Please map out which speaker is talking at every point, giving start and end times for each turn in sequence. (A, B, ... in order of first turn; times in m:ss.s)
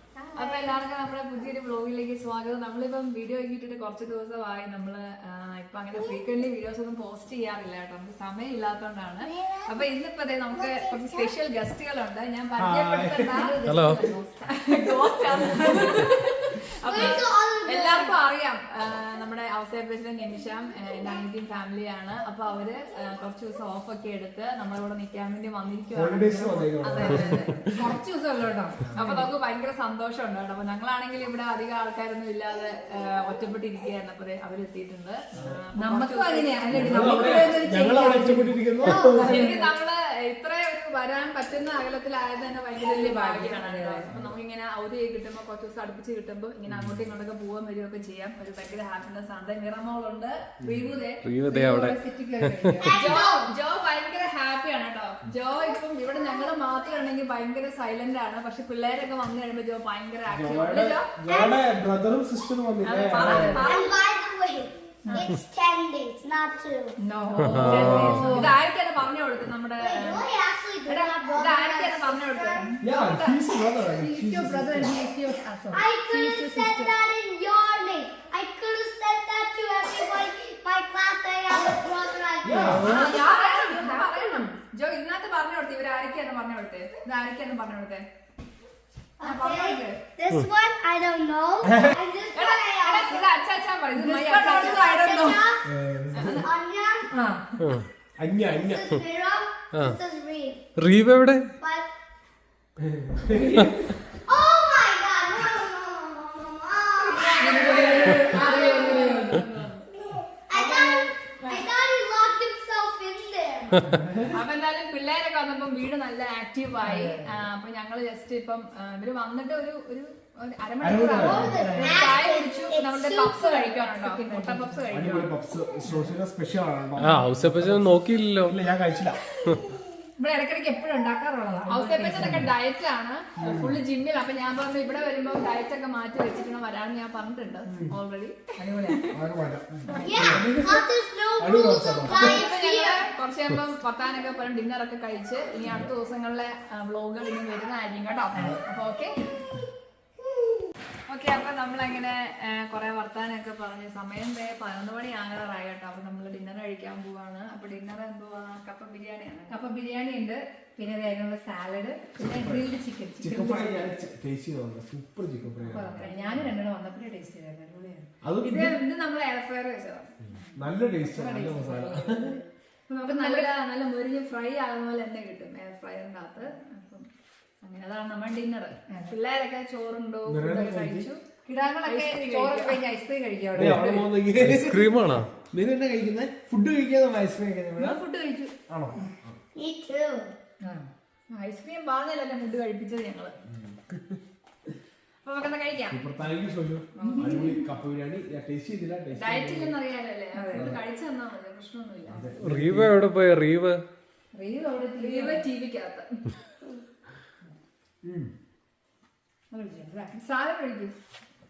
0:00.2-0:00.7 A
0:00.4-0:27.6 B
0:05.9-0:06.3 A
0:09.2-0:09.9 A
0:10.5-0:11.3 A
0:12.6-0:13.4 C
0:13.3-0:16.2 D
0:13.6-0:14.0 E
0:16.8-0:18.2 A
0:25.9-0:27.4 C
0:26.9-0:29.3 D
0:28.9-0:37.4 B
0:35.8-0:39.7 D
0:36.7-0:39.3 C
0:39.1-0:39.4 A
0:39.2-0:51.2 B
0:42.8-0:44.1 D
0:50.6-0:50.9 C
0:51.2-0:52.9 E
0:51.5-0:53.2 D
0:52.8-0:53.5 A
0:52.8-1:01.1 B
0:55.5-0:56.9 A
1:00.3-1:03.6 C
1:01.3-1:01.6 A
1:02.8-1:04.0 B
1:03.4-1:07.0 A
1:07.0-1:08.6 D
1:07.4-1:10.2 B
1:07.4-1:08.3 E
1:09.8-1:12.6 A
1:10.8-1:13.4 B
1:12.8-1:15.0 C
1:13.9-1:16.9 D
1:15.7-1:22.8 A
1:22.4-1:23.1 C
1:22.6-1:24.5 D
1:22.6-1:28.0 B
1:29.2-1:33.3 A
1:29.2-1:30.0 B
1:31.6-1:32.0 C
1:32.3-1:35.4 B
1:33.9-1:35.4 D
1:34.7-1:35.6 A
1:35.7-1:36.4 C
1:36.1-1:36.5 B
1:36.4-1:37.1 A
1:37.1-1:37.6 D
1:37.6-1:37.9 E
1:38.2-1:39.0 C
1:38.5-1:40.6 A
1:39.7-1:40.0 E
1:40.8-1:41.5 E
1:41.6-1:41.9 A
1:42.8-1:43.7 C
1:44.2-1:49.1 A
1:47.0-1:49.9 B
1:47.4-1:49.4 D
1:50.1-1:54.0 A
1:50.5-1:51.6 B
1:53.9-1:54.3 C
1:54.3-2:05.3 B
1:56.8-1:57.3 D
2:00.8-2:01.6 C
2:01.0-2:03.7 A
2:01.6-2:02.1 D
2:03.8-2:05.1 D
2:04.9-2:09.2 C
2:07.0-2:08.6 E
2:10.2-2:12.5 D
2:11.7-2:18.4 B
2:13.4-2:13.8 C
2:17.7-2:17.9 C
2:18.6-2:19.0 D
2:19.1-2:20.6 C
2:19.9-2:23.1 A
2:20.2-2:20.4 D
2:20.4-2:20.8 B
2:21.4-2:22.4 C
2:22.0-2:29.1 B
2:31.1-2:39.6 B
2:39.5-2:43.9 D
2:42.2-2:42.6 C
2:43.2-2:46.5 C
2:45.7-2:48.1 D
2:45.8-2:46.4 B
2:48.2-2:48.8 C
2:48.4-2:50.1 B
2:50.3-2:53.5 D
2:50.5-2:52.4 C
2:53.0-2:57.1 B
2:57.6-3:01.2 B
3:00.3-3:01.1 C
3:01.4-3:04.1 D
3:01.8-3:02.8 B
3:03.6-3:04.9 C
3:04.4-3:05.3 E
3:05.4-3:08.0 C
3:07.8-3:08.5 B
3:08.7-3:09.4 C
3:09.6-3:10.3 A
3:10.6-3:10.9 D
3:11.3-3:13.3 B
3:13.5-3:14.2 C
3:15.2-3:16.0 B
3:15.9-3:19.7 C
3:17.0-3:17.6 D
3:19.2-3:22.3 B
3:20.3-3:20.7 D
3:20.5-3:20.8 C
3:22.1-3:23.0 C
3:22.4-3:23.8 E
3:24.3-3:25.4 D
3:25.0-3:26.1 B
3:28.0-3:28.3 C
3:29.5-3:30.1 D
3:30.1-3:30.9 B